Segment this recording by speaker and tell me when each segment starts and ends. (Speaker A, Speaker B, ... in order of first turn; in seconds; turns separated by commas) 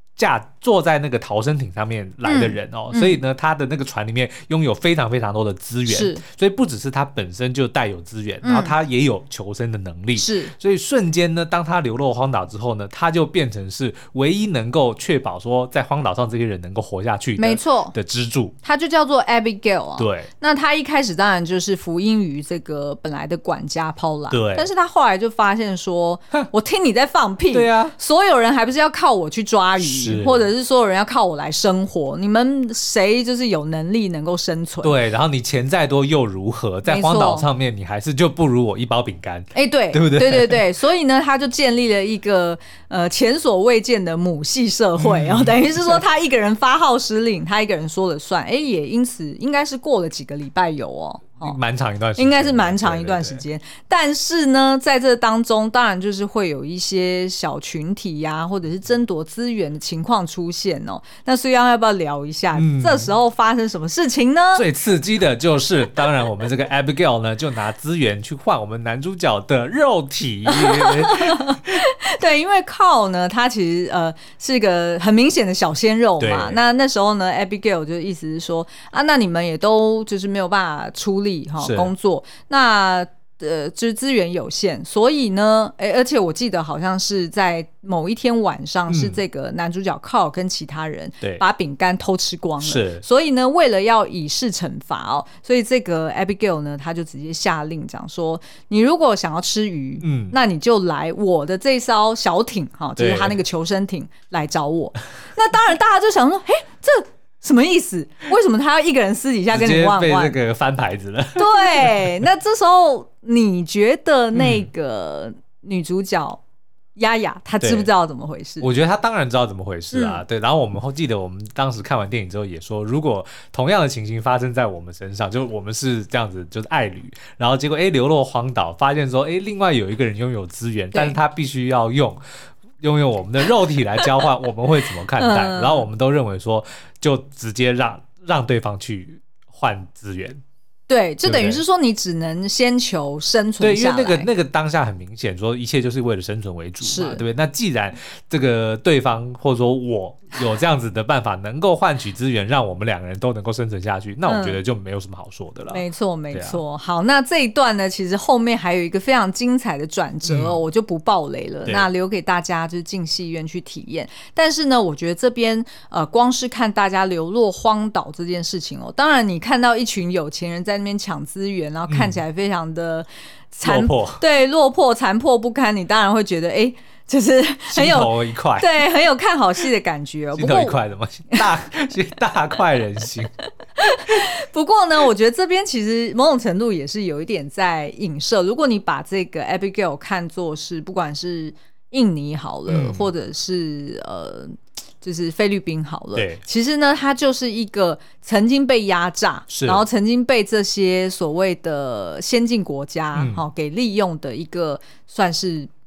Speaker A: 0.2-18.5, Speaker B: 2.2-3.2, Speaker B: 5.9-6.2, Speaker B: 8.4-8.7, Speaker B: 10.2-10.5, Speaker B: 17.4-17.9, Speaker B: 18.6-35.0, Speaker A: 20.0-20.3, Speaker A: 24.3-24.7, Speaker A: 27.5-27.9, Speaker A: 29.8-30.5, Speaker A: 34.8-40.6, Speaker B: 36.9-37.5, Speaker B: 39.5-51.6, Speaker A: 45.0-45.9, Speaker A: 51.4-53.4, Speaker B: 52.2-64.6, Speaker A: 62.5-63.1, Speaker A: 64.5-71.8, Speaker B: 70.5-110.4, Speaker A: 76.2-76.6, Speaker A: 81.6-81.9, Speaker A: 88.9-89.2, Speaker A: 92.6-93.0, Speaker A: 100.0-100.3, Speaker A: 103.0-103.4, Speaker A: 109.5-112.1, Speaker B: 111.3-116.4, Speaker A: 114.3-114.7, Speaker B: 117.0-118.7, Speaker A: 117.6-117.9, Speaker A: 118.6-132.2, Speaker B: 119.9-120.2, Speaker A: 132.8-140.4, Speaker B: 135.1-135.8, Speaker B: 140.9-144.3, Speaker A: 141.2-141.6, Speaker A: 143.6-156.6, Speaker B: 146.8-147.2, Speaker B: 154.2-154.6, Speaker B: 155.7-180.8, Speaker A: 160.2-160.6, Speaker A: 171.9-172.2, Speaker A: 173.6-174.2, Speaker A: 177.7-178.8, Speaker A: 180.3-183.3, Speaker B: 183.8-205.7, Speaker A: 192.7-193.1, Speaker A: 196.1-196.4, Speaker A: 199.5-199.8, Speaker A: 203.1-203.4